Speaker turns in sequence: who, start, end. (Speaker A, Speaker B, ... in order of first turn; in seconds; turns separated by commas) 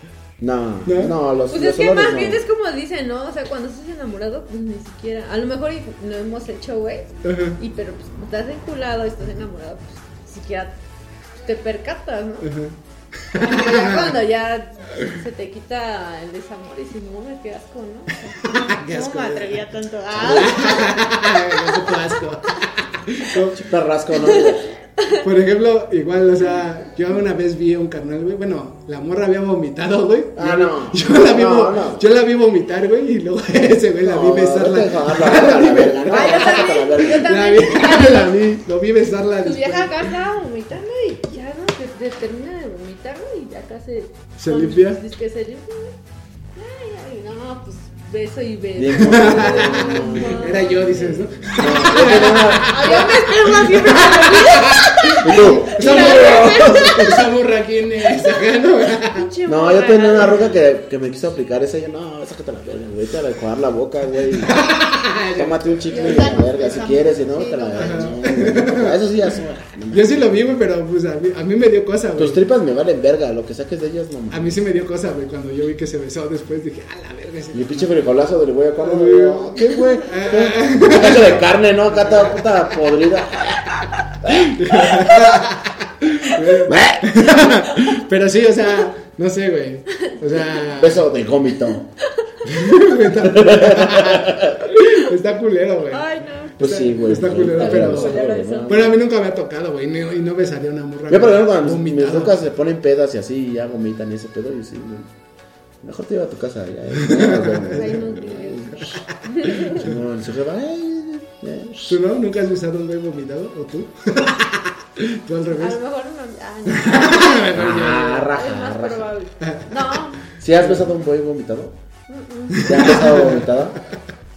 Speaker A: 0.4-2.4, Speaker B: 0.8-1.1, Speaker C: 1.5-10.8, Speaker B: 7.2-7.6, Speaker C: 11.4-12.5, Speaker B: 12.4-12.8, Speaker B: 13.3-14.2, Speaker C: 13.4-22.0, Speaker B: 18.4-23.6, Speaker A: 20.1-20.6, Speaker A: 23.5-24.8, Speaker C: 24.2-25.2, Speaker B: 25.2-40.1, Speaker A: 30.4-32.1, Speaker A: 34.0-37.3, Speaker C: 36.1-38.3, Speaker C: 39.4-46.0, Speaker B: 44.4-45.0, Speaker C: 46.5-57.3, Speaker A: 48.8-50.6, Speaker B: 49.0-59.3, Speaker A: 51.6-53.2, Speaker A: 55.2-57.2, Speaker C: 59.0-60.5, Speaker A: 59.5-64.6, Speaker B: 64.4-66.5, Speaker A: 65.4-70.3, Speaker C: 65.9-68.2, Speaker B: 67.8-69.0, Speaker B: 69.9-72.4, Speaker A: 72.2-74.5, Speaker B: 74.3-78.0, Speaker A: 77.5-85.2, Speaker B: 78.8-82.4, Speaker B: 84.3-91.1, Speaker A: 86.6-87.5, Speaker A: 90.7-91.8, Speaker B: 92.4-96.1, Speaker A: 93.2-94.7, Speaker C: 95.9-96.6, Speaker A: 96.6-99.0, Speaker B: 96.6-102.4, Speaker C: 97.2-98.8, Speaker A: 101.1-105.1, Speaker A: 105.8-108.9, Speaker B: 107.0-108.0, Speaker C: 107.7-109.8, Speaker B: 108.8-109.9, Speaker A: 109.7-112.0, Speaker B: 111.8-115.8, Speaker C: 115.6-117.6, Speaker B: 116.7-118.3, Speaker A: 117.5-119.1, Speaker C: 118.3-120.2, Speaker B: 119.4-119.7, Speaker A: 120.4-121.8, Speaker B: 120.5-120.9, Speaker C: 122.1-122.9, Speaker B: 122.5-123.5, Speaker A: 122.6-123.8